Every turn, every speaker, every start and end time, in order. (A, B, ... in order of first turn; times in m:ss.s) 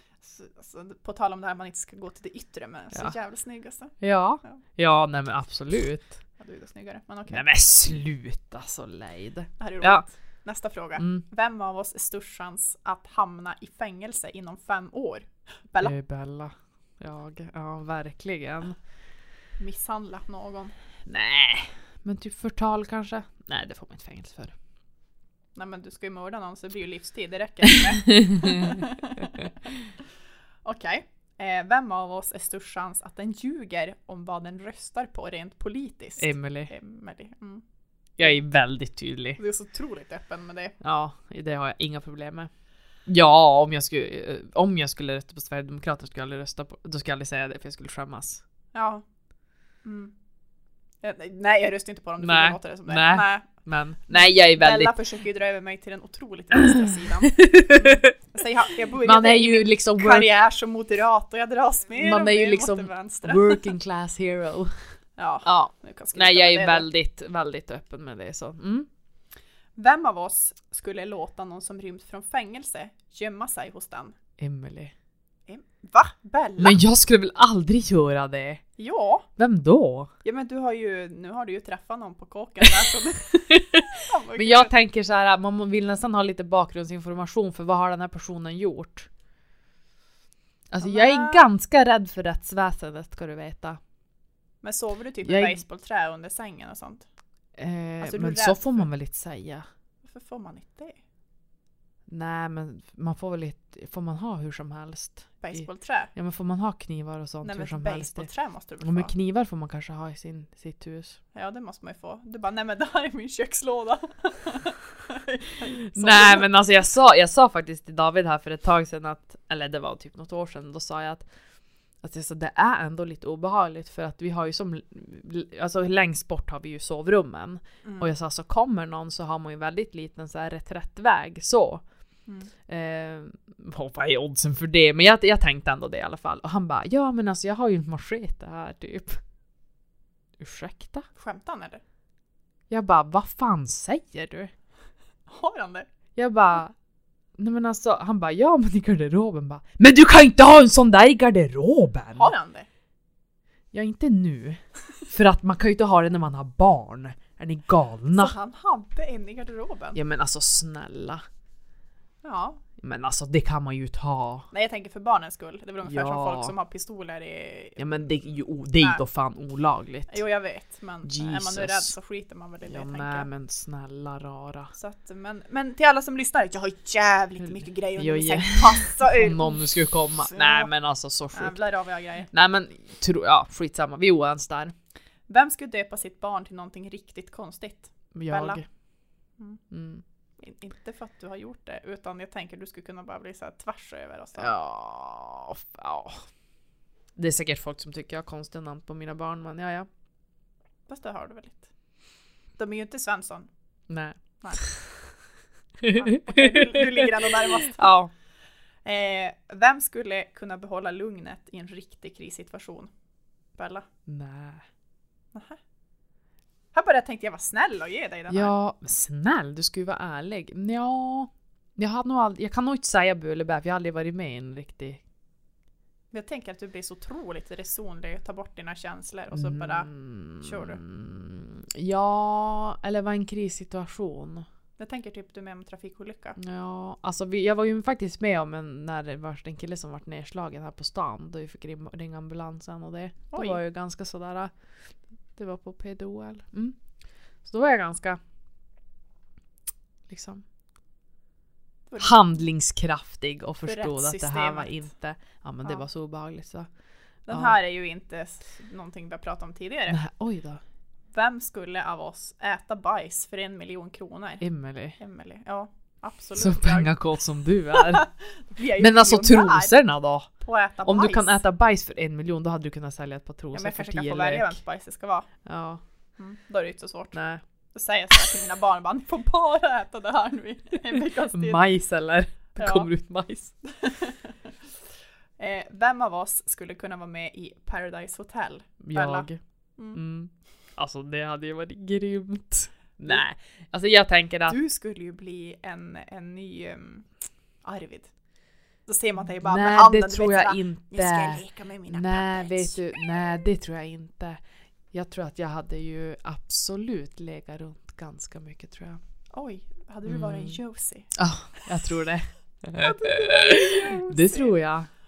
0:00.2-0:04.6 A
0:04.0-0:06.2 B
0:06.4-0:07.5 A
0:07.3-0:10.0 B
0:09.6-0:16.0 A
0:11.0-0:11.2 B
0:15.8-0:18.8 B
0:19.6-0:20.7 A
0:21.1-0:24.5 B
0:25.6-0:29.5 A
0:28.5-0:28.8 B
0:30.6-0:37.6 A
0:36.2-0:36.7 B
0:38.2-0:39.4 B
0:39.4-0:40.8 A
0:40.8-0:42.5 B
0:43.1-0:48.4 B
0:48.7-0:49.0 A
0:49.8-0:50.1 A
0:51.0-0:53.5 A
0:52.2-0:55.0 B
0:54.1-1:03.7 A
0:56.7-0:58.1 B
0:59.0-1:00.3 B
1:02.0-1:04.7 B
1:05.2-1:06.9 A
1:05.4-1:08.9 B
1:09.8-1:14.2 A
1:14.4-1:14.9 B
1:15.5-1:16.8 A
1:16.6-1:18.6 B
1:18.8-1:19.3 A
1:19.4-1:20.1 B
1:20.2-1:24.8 A
1:23.5-1:29.1 B
1:30.7-1:33.8 B
1:30.8-1:31.5 A
1:34.6-1:37.1 A
1:35.2-1:35.6 B
1:37.6-1:39.7 B
1:38.0-1:38.9 A
1:40.0-1:41.0 A
1:42.1-1:48.3 B
1:45.4-1:46.1 A
1:47.4-1:49.1 A
1:48.8-1:51.2 B
1:51.3-1:56.5 A
1:55.9-2:01.3 B
2:02.0-2:11.8 B
2:07.8-2:08.1 A
2:12.7-2:19.2 B
2:20.4-2:21.1 B
2:21.2-2:21.8 A
2:22.7-2:24.5 B
2:25.3-2:25.9 A
2:26.2-2:26.7 B
2:27.4-2:32.3 B
2:32.2-2:32.7 A
2:33.7-2:38.4 B
2:38.1-2:40.0 A
2:40.0-2:41.2 B
2:42.2-2:42.6 A
2:42.8-2:44.5 B
2:44.5-2:48.2 A
2:45.8-2:46.5 B
2:47.8-2:50.2 B
2:48.8-2:49.0 A
2:50.1-2:53.3 A
2:51.0-2:51.9 B
2:52.6-2:54.7 B
2:54.7-3:00.7 A
2:58.0-3:01.6 B
3:01.3-3:02.3 A
3:02.3-3:04.7 B
3:05.3-3:08.6 A
3:08.1-3:08.6 B
3:09.7-3:10.0 B
3:10.4-3:14.6 A
3:14.4-3:16.2 B
3:17.2-3:19.9 B
3:20.9-3:21.7 A
3:22.6-3:23.5 A
3:23.9-3:24.9 B
3:24.4-3:24.7 A
3:25.8-3:28.1 B
3:25.9-3:27.9 A
3:28.8-3:32.9 A
3:33.6-3:33.9 A
3:34.1-3:34.6 B
3:35.3-3:35.6 A
3:36.7-3:38.5 A
3:38.3-3:45.0 B
3:46.1-3:49.9 A
3:49.3-3:54.5 B
3:50.4-3:50.8 A
3:54.8-3:56.4 A
3:56.4-4:04.5 B
4:03.3-4:03.6 A
4:05.4-4:06.8 B
4:07.4-4:08.2 B
4:10.1-4:10.4 B
4:11.9-4:12.3 A
4:12.0-4:16.7 B
4:13.6-4:14.8 A
4:17.3-4:20.0 A
4:17.3-4:17.6 B
4:19.9-4:20.6 B
4:21.1-4:24.4 A
4:24.4-4:25.0 B
4:25.0-4:26.9 A
4:26.4-4:28.1 B
4:27.7-4:29.8 A
4:28.8-4:30.3 B
4:30.4-4:31.4 A
4:30.8-4:34.6 B
4:33.5-4:35.3 A
4:35.4-4:35.8 B
4:36.2-4:37.2 A
4:37.1-4:37.4 B
4:37.7-4:41.6 A
4:41.3-4:43.5 B
4:42.6-4:42.9 A
4:43.6-4:44.5 A
4:45.4-4:50.0 A
4:48.8-4:49.4 B
4:49.9-4:54.6 B
4:54.5-4:57.1 A
4:57.6-4:58.1 A
4:58.9-5:02.9 A
4:59.4-5:04.4 B
5:04.9-5:09.0 B
5:09.3-5:11.8 A
5:10.1-5:10.6 B
5:11.1-5:14.9 B
5:12.8-5:14.6 A